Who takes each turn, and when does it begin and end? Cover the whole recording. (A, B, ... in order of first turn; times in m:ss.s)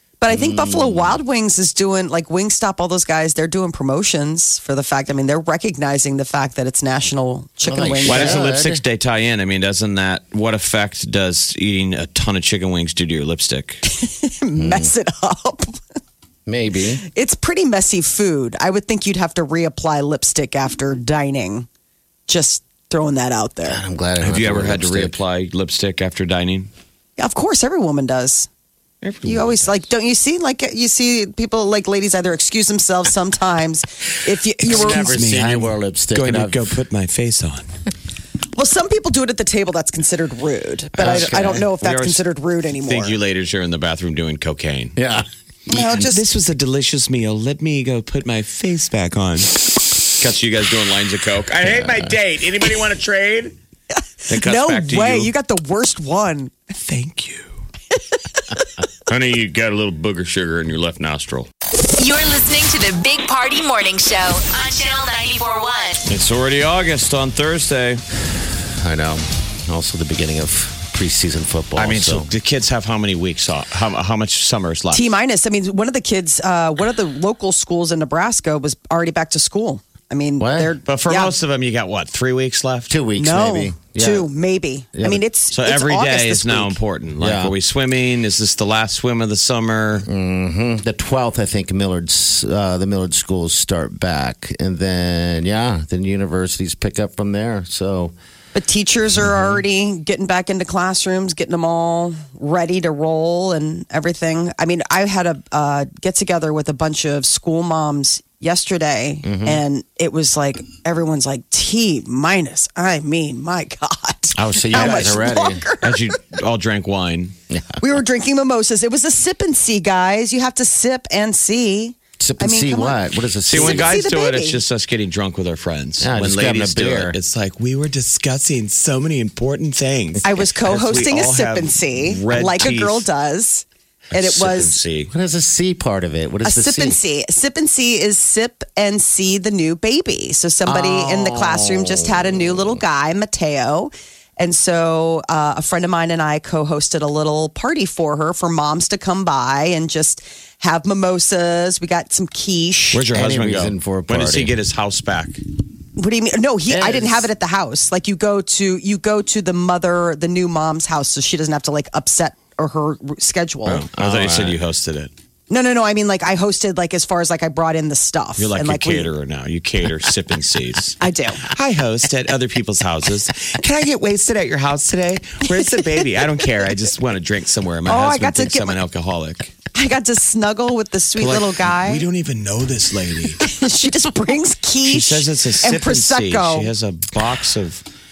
0:00.2-0:08.4 A
0:00.3-0:01.2 B
0:07.6-0:08.8 B
0:08.0-0:13.8 C
0:13.8-0:15.8 A
0:14.6-0:14.9 B
0:16.4-0:17.0 B
0:17.1-0:21.7 A
0:22.3-0:23.8 A
0:23.7-0:25.1 B
0:24.2-0:26.7 C
0:27.2-0:28.5 A
0:29.0-0:29.7 C
0:29.2-0:35.1 A
0:34.7-0:36.6 B
0:34.7-0:37.7 C
0:38.6-0:43.2 A
0:41.0-0:42.2 C
0:41.0-0:41.6 B
0:42.8-0:45.0 C
0:45.0-0:45.3 B
0:45.7-0:46.2 A
0:45.7-0:53.6 C
0:51.7-0:52.1 B
0:54.3-0:56.5 A
0:54.3-0:55.3 C
0:56.8-0:57.5 C
0:59.1-1:01.5 C
1:01.9-1:06.0 D
1:06.0-1:08.0 C
1:08.6-1:12.3 B
1:11.8-1:15.1 C
1:14.9-1:21.3 A
1:20.4-1:20.7 B
1:20.9-1:22.9 C
1:22.9-1:24.3 B
1:23.2-1:26.8 A
1:24.9-1:25.2 B
1:25.5-1:30.0 C
1:27.2-1:27.5 B
1:30.0-1:38.1 B
1:38.5-1:56.2 A
1:39.2-1:39.6 B
1:49.2-1:49.6 B
1:54.3-1:55.6 B
1:54.7-1:55.2 C
1:55.8-1:57.3 C
1:57.5-1:57.8 B
1:57.8-2:04.6 A
2:02.2-2:04.0 B
2:03.5-2:13.1 C
2:06.0-2:07.2 B
2:10.2-2:14.8 A
2:14.1-2:15.1 C
2:15.1-2:17.0 B
2:16.4-2:33.0 A
2:20.6-2:22.8 B
2:32.9-2:35.4 C
2:33.1-2:34.5 B
2:36.0-2:43.8 A
2:36.7-2:37.3 B
2:43.6-2:45.1 C
2:44.0-2:44.6 B
2:45.5-2:49.1 A
2:48.4-2:59.5 C
2:51.0-2:51.5 A
2:55.7-2:56.0 A
2:57.8-2:58.8 A
2:59.7-3:02.0 A
3:01.2-3:03.4 C
3:03.4-3:06.7 A
3:04.8-3:07.8 C